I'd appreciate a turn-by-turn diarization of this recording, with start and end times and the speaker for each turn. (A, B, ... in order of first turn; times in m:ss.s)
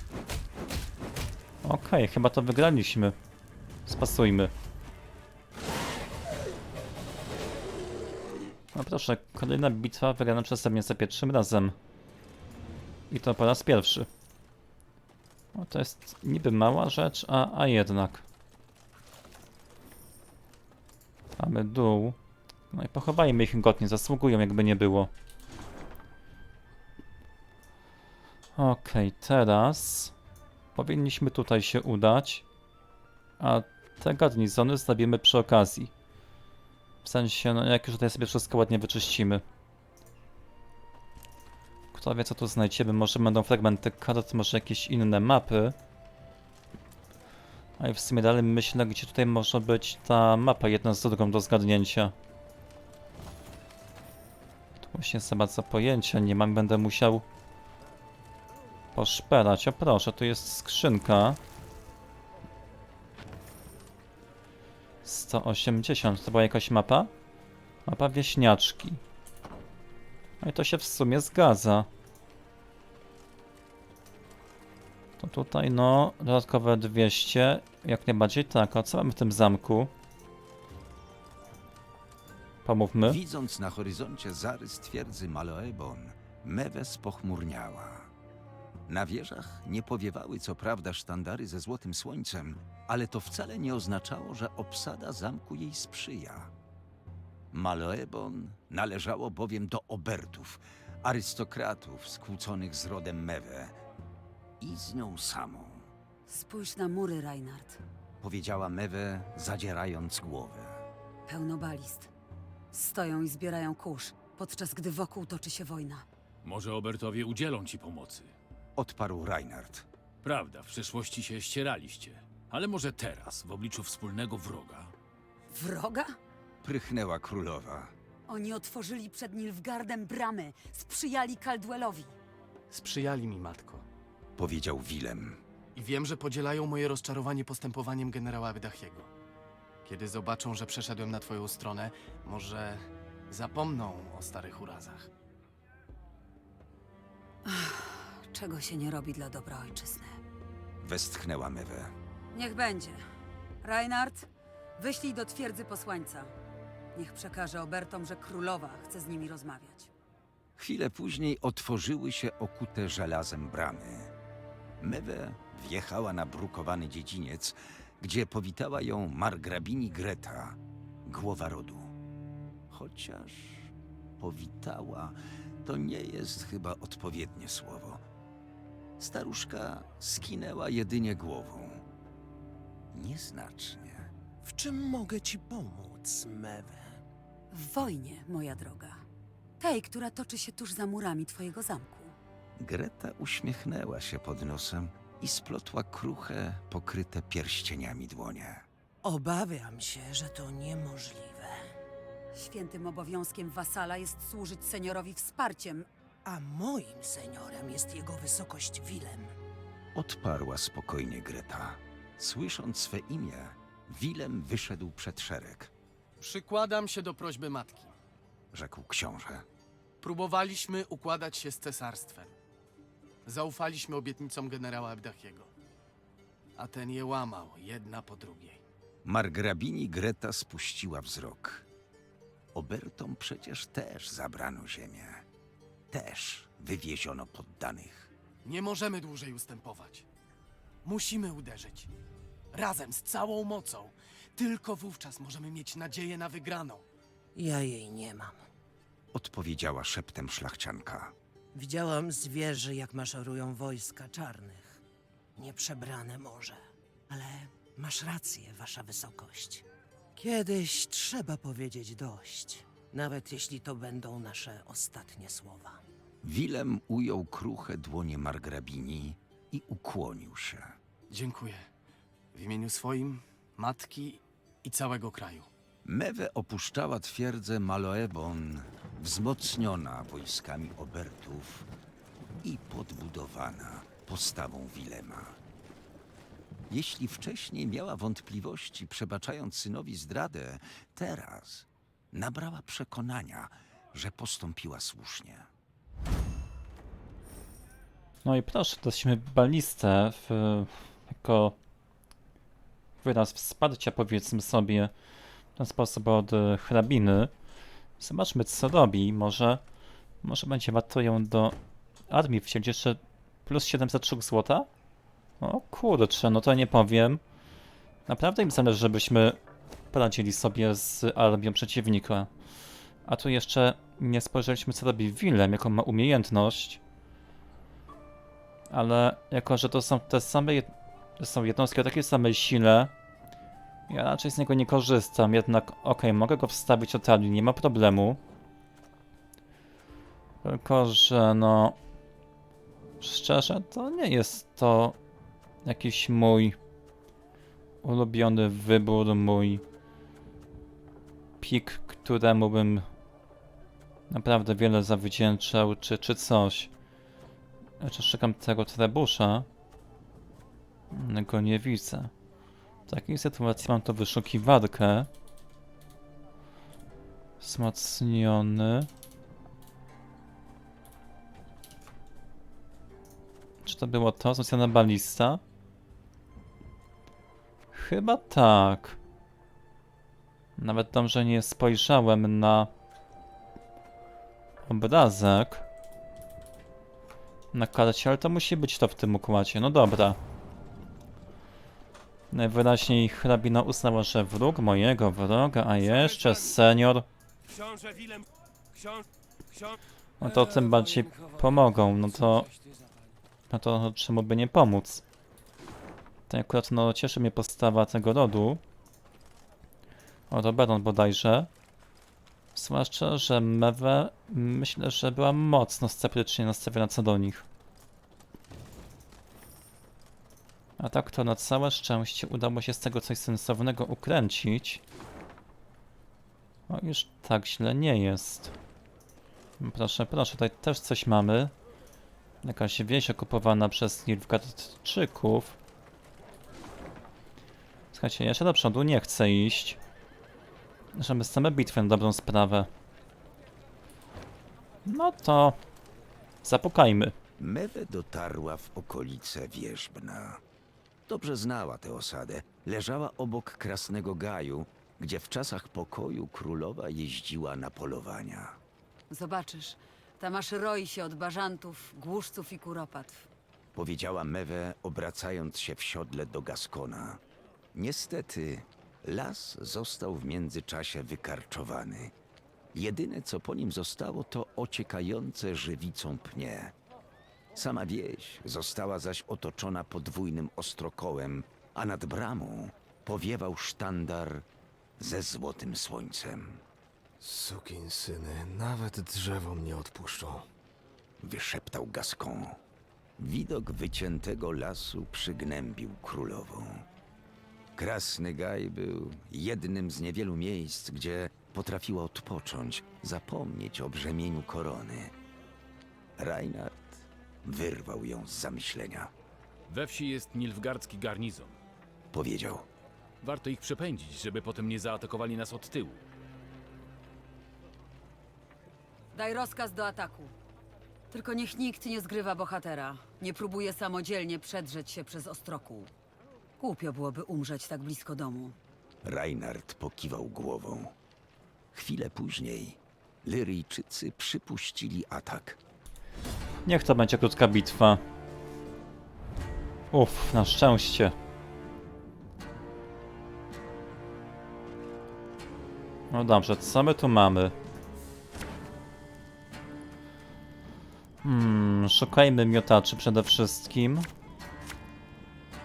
0:01.6-0:03.2 A
0:03.8-0:04.5 A
0:08.7-0:11.8 A
0:13.1-0:14.1 A
0:15.5-0:18.2 A
0:21.4-0:22.2 A
0:22.7-0:25.1 A
0:28.6-0:30.1 A
0:30.8-0:32.4 A
0:33.4-0:35.9 A
0:37.0-0:39.4 A
0:41.9-0:45.8 A
0:47.8-0:52.1 A
0:54.8-0:57.2 A
0:58.9-1:01.4 A
1:05.0-1:07.1 A
1:07.8-1:09.0 A
1:10.4-1:11.9 A
1:15.2-1:19.9 A
1:22.6-1:23.2 A
1:23.0-1:28.1 B
1:28.9-1:36.5 B
1:37.5-1:43.8 B
1:44.6-1:45.9 B
1:46.3-1:47.8 C
1:48.2-1:50.8 B
1:51.3-1:52.1 C
1:52.7-1:56.0 C
1:56.4-1:58.3 D
1:58.8-1:59.8 B
2:00.2-2:04.9 D
2:05.5-2:06.1 C
2:06.6-2:07.9 B
2:08.3-2:12.1 C
2:12.7-2:13.8 E
2:14.4-2:15.4 B
2:15.7-2:19.1 E
2:19.8-2:25.1 E
2:27.4-2:30.2 C
2:30.8-2:31.9 B
2:32.3-2:33.0 C
2:33.6-2:36.3 C
2:36.9-2:39.9 C
2:40.6-2:44.1 B
2:44.8-2:51.9 B
2:52.7-2:58.0 B
2:59.0-3:01.8 B
3:02.9-3:04.1 B
3:04.4-3:07.0 F
3:07.5-3:09.0 C
3:09.6-3:12.1 C
3:12.6-3:18.6 B
3:19.0-3:21.6 F
3:22.3-3:25.9 C
3:26.2-3:29.3 F
3:29.9-3:35.7 B
3:36.2-3:37.9 E
3:38.5-3:39.4 B
3:40.0-3:42.3 E
3:43.2-3:45.5 E
3:46.6-3:48.6 E
3:49.0-3:51.6 B
3:52.5-3:55.2 B
3:55.9-3:58.1 B
3:58.4-4:00.0 E
4:00.8-4:01.9 E
4:02.5-4:06.8 E
4:07.3-4:08.4 F
4:09.1-4:11.1 B
4:11.5-4:14.8 F
4:15.4-4:19.6 F
4:20.2-4:25.8 F
4:26.2-4:30.8 B
4:31.1-4:31.7 E
4:32.3-4:35.5 E
4:35.8-4:41.7 B
4:42.4-4:45.4 B
4:46.7-4:55.5 B
4:58.2-5:01.6 A
5:03.0-5:04.9 A
5:05.6-5:07.3 A
5:08.0-5:09.6 A
5:10.2-5:11.6 A
5:12.1-5:14.7 A
5:15.4-5:17.2 A
5:18.1-5:19.4 A
5:19.9-5:22.3 A
5:23.0-5:26.8 A
5:28.7-5:32.9 A
5:33.9-5:38.2 A
5:40.4-5:41.8 A
5:43.0-5:45.0 A
5:45.6-5:46.6 A
5:47.8-5:49.6 A
5:51.4-5:52.9 A
5:54.1-5:56.7 A
5:57.8-5:59.5 A
6:00.9-6:02.1 A
6:02.9-6:05.1 A
6:07.4-6:08.9 A
6:13.6-6:15.4 A
6:17.7-6:19.0 A
6:20.6-6:22.7 A
6:24.6-6:25.6 A
6:27.5-6:30.2 A
6:32.3-6:37.1 A
6:40.2-6:42.5 A
6:43.5-6:45.0 A
6:46.3-6:48.6 A
6:50.3-6:51.5 A
6:52.5-6:57.4 A
7:00.8-7:04.8 A
7:06.7-7:08.5 A
7:09.6-7:11.5 A
7:12.4-7:15.6 A
7:17.9-7:19.8 A
7:20.9-7:22.7 A
7:24.8-7:25.6 A
7:26.4-7:27.2 A
7:27.4-7:30.4 B
7:31.1-7:38.6 B
7:39.1-7:43.3 C
7:43.7-7:47.2 B
7:47.7-7:52.1 B
7:52.7-7:56.7 B
7:57.5-8:04.4 B
8:05.0-8:06.6 B
8:07.2-8:10.5 G
8:11.2-8:12.6 B
8:13.2-8:16.8 B
8:17.8-8:25.1 B
8:26.2-8:29.1 B
8:29.7-8:31.6 D
8:32.1-8:32.6 B
8:33.2-8:36.0 D
8:39.1-8:40.3 C
8:41.1-8:45.9 C
8:46.6-8:48.6 C
8:49.0-8:50.9 B
8:51.7-8:55.6 B
8:56.6-8:58.0 A
8:59.9-9:01.2 A
9:06.1-9:07.5 A
9:11.2-9:14.1 A